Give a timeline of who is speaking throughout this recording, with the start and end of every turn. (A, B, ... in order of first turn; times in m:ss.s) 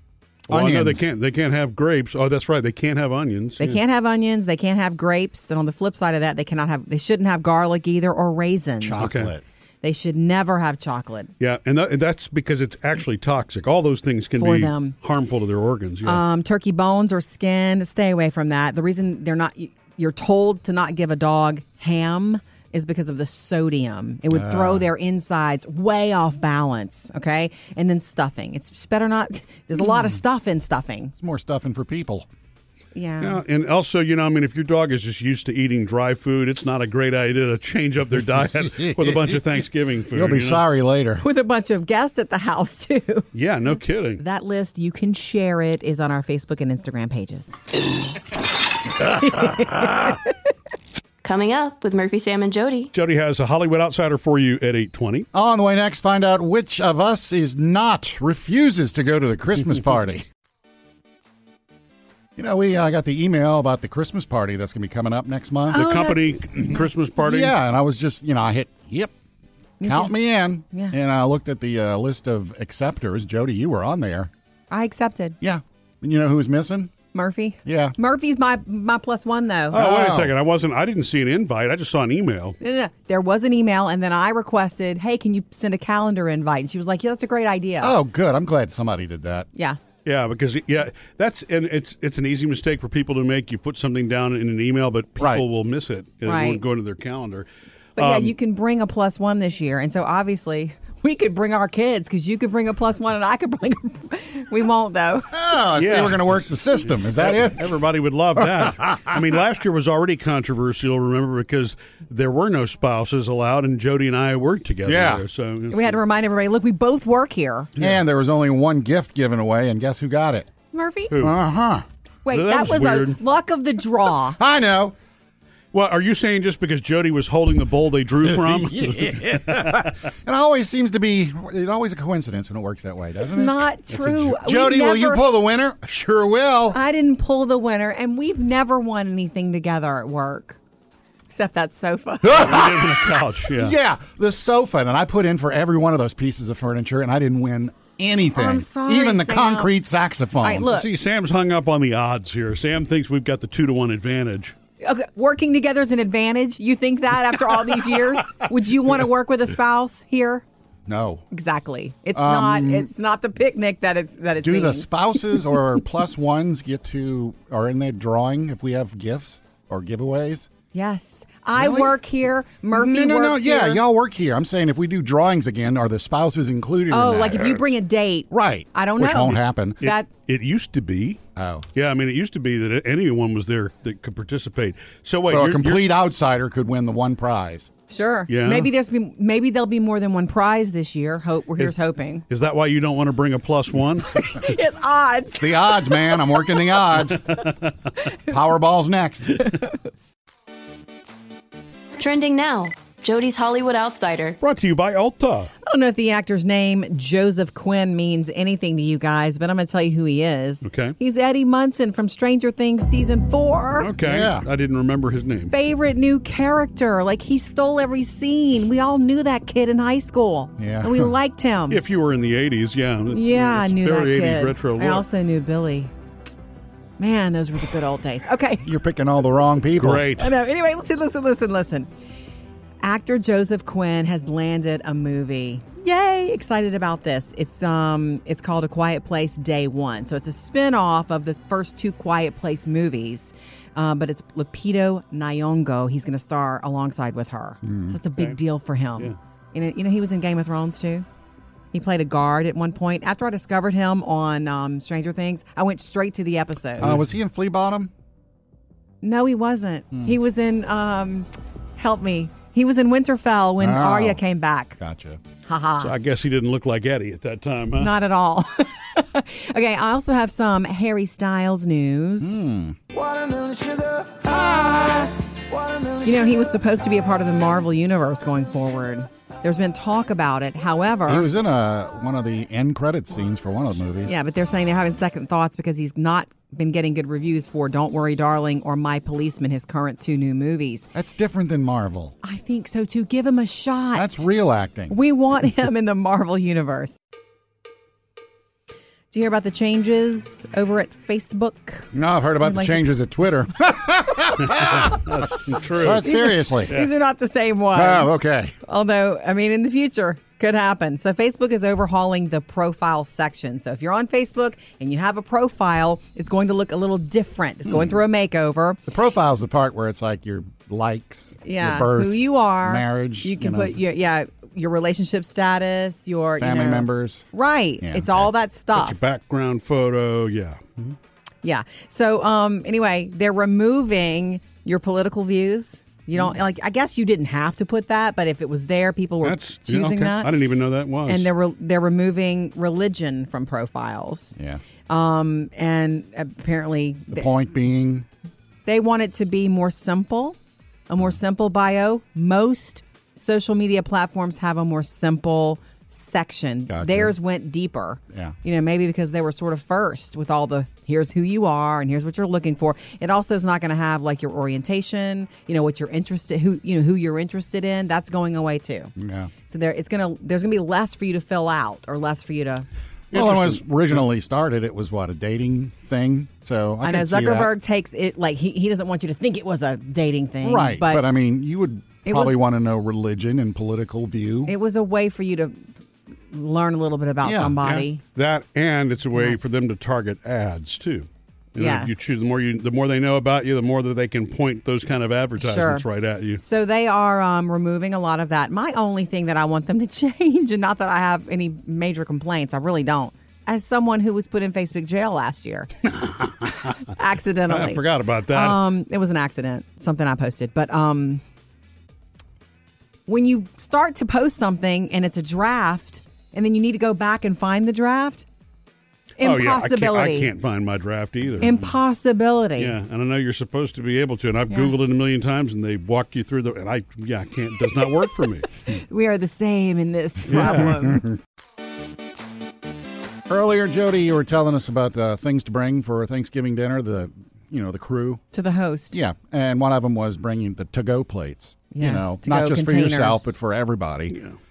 0:00.5-0:01.1 A
0:00.5-0:03.8 B
0:03.6-0:09.2 C
0:08.8-0:09.4 A
0:09.0-0:09.3 B
0:09.8-0:11.3 C
0:11.4-0:16.2 B
0:14.4-0:15.0 C
0:16.0-0:31.1 C
0:24.3-0:24.9 A
0:31.2-0:32.3 A
0:32.9-0:33.4 C
0:33.2-0:40.6 B
0:38.8-0:39.4 A
0:40.1-0:41.2 A
0:41.2-0:43.3 C
0:43.4-0:44.2 B
0:44.2-0:47.6 C
0:49.1-0:50.2 C
0:51.2-0:52.9 D
0:52.9-0:55.3 B
0:55.3-1:00.2 A
1:02.4-1:06.0 A
1:05.7-1:06.7 C
1:05.7-1:07.5 B
1:07.2-1:09.1 A
1:09.8-1:10.2 C
1:09.8-1:14.3 A
1:10.7-1:11.0 C
1:14.7-1:15.4 C
1:15.4-1:16.9 A
1:17.1-1:19.8 C
1:17.6-1:17.9 A
1:19.7-1:22.6 B
1:19.7-1:20.4 A
1:22.6-1:28.0 C
1:27.8-1:29.5 A
1:30.0-1:38.3 B
1:35.2-1:35.4 A
1:36.2-1:36.6 C
1:38.0-1:45.4 C
1:45.3-1:47.7 A
1:45.7-1:56.0 B
1:48.4-1:49.2 A
1:54.8-1:55.2 A
1:55.7-1:57.7 C
1:57.8-2:00.5 A
2:00.7-2:01.1 C
2:01.2-2:01.9 A
2:02.2-2:04.4 C
2:02.3-2:03.2 B
2:04.4-2:04.9 A
2:05.7-2:10.0 B
2:08.3-2:16.8 A
2:13.3-2:15.2 C
2:16.7-2:20.6 C
2:21.3-2:22.7 C
2:22.2-2:30.7 A
2:22.4-2:23.8 B
2:28.3-2:29.7 C
2:30.4-2:30.9 C
2:30.6-2:34.5 B
2:34.8-2:40.4 C
2:40.9-2:41.2 A
2:41.3-2:45.4 C
2:42.1-2:42.9 A
2:44.4-2:50.5 A
2:50.7-2:53.8 C
2:51.6-2:52.0 A
2:52.7-2:57.7 A
2:56.9-3:00.1 C
2:58.3-2:59.8 A
2:59.8-3:01.2 B
3:01.4-3:01.7 A
3:01.7-3:05.8 B
3:05.2-3:07.7 A
3:07.9-3:12.2 C
3:08.3-3:08.7 B
3:12.3-3:14.3 B
3:14.2-3:16.5 C
3:15.4-3:17.4 A
3:17.1-3:17.7 B
3:18.3-3:19.5 A
3:22.0-3:24.4 D
3:24.4-3:25.5 B
3:25.6-3:33.9 C
3:30.6-3:30.9 B
3:33.8-3:35.5 B
3:34.0-3:34.4 A
3:35.5-3:41.8 C
3:40.6-3:41.1 A
3:41.7-3:45.0 B
3:43.1-3:45.9 C
3:47.0-3:48.7 C
3:48.6-3:50.1 A
3:49.8-3:50.4 B
3:50.2-3:51.9 C
3:52.8-4:11.0 C
4:07.6-4:07.9 A
4:11.7-4:16.9 C
4:16.8-4:17.9 A
4:19.0-4:24.8 C
4:23.6-4:24.2 A
4:24.8-4:25.2 A
4:25.4-4:25.9 C
4:25.8-4:27.9 B
4:27.8-4:32.4 C
4:32.2-4:32.8 A
4:32.9-4:36.4 E
4:36.0-4:41.3 C
4:41.1-4:44.1 A
4:44.0-4:50.9 C
4:50.9-4:52.2 A
4:52.2-4:54.3 C
4:53.9-4:55.0 A
4:54.9-4:57.0 C
4:59.1-5:02.9 C
5:01.9-5:06.7 A
5:04.4-5:06.1 B
5:05.8-5:18.8 C
5:07.7-5:08.6 A
5:18.9-5:23.8 A
5:21.4-5:29.0 C
5:26.4-5:27.2 A
5:27.8-5:28.3 A
5:28.7-5:31.0 B
5:31.4-5:40.3 C
5:39.2-5:41.3 B
5:41.1-5:44.4 C
5:44.9-5:47.3 C
5:47.1-5:48.0 A
5:48.6-5:50.4 C
5:50.9-6:08.9 C
5:56.7-5:57.1 A
6:09.0-6:09.3 A
6:09.5-6:12.6 C
6:13.1-6:13.6 B
6:13.1-6:17.5 A
6:16.8-6:21.0 C
6:20.4-6:24.5 A
6:22.0-6:22.5 C
6:24.4-6:25.7 C
6:26.3-6:28.0 C
6:27.2-6:27.6 A
6:27.6-6:36.4 B
6:31.6-6:32.1 C
6:35.4-6:35.8 C
6:36.4-6:45.7 C
6:46.0-6:46.8 B
6:46.7-6:51.2 C
6:47.5-6:48.6 B
6:53.1-6:58.2 C
6:59.2-7:00.3 C
6:59.2-7:01.5 B
7:01.4-7:01.7 A
7:01.4-7:02.7 C
7:02.6-7:08.6 B
7:04.5-7:04.7 C
7:08.7-7:11.0 C
7:10.3-7:10.7 B
7:13.3-7:18.2 A
7:18.3-7:19.0 C
7:18.9-7:24.2 A
7:21.7-7:23.3 C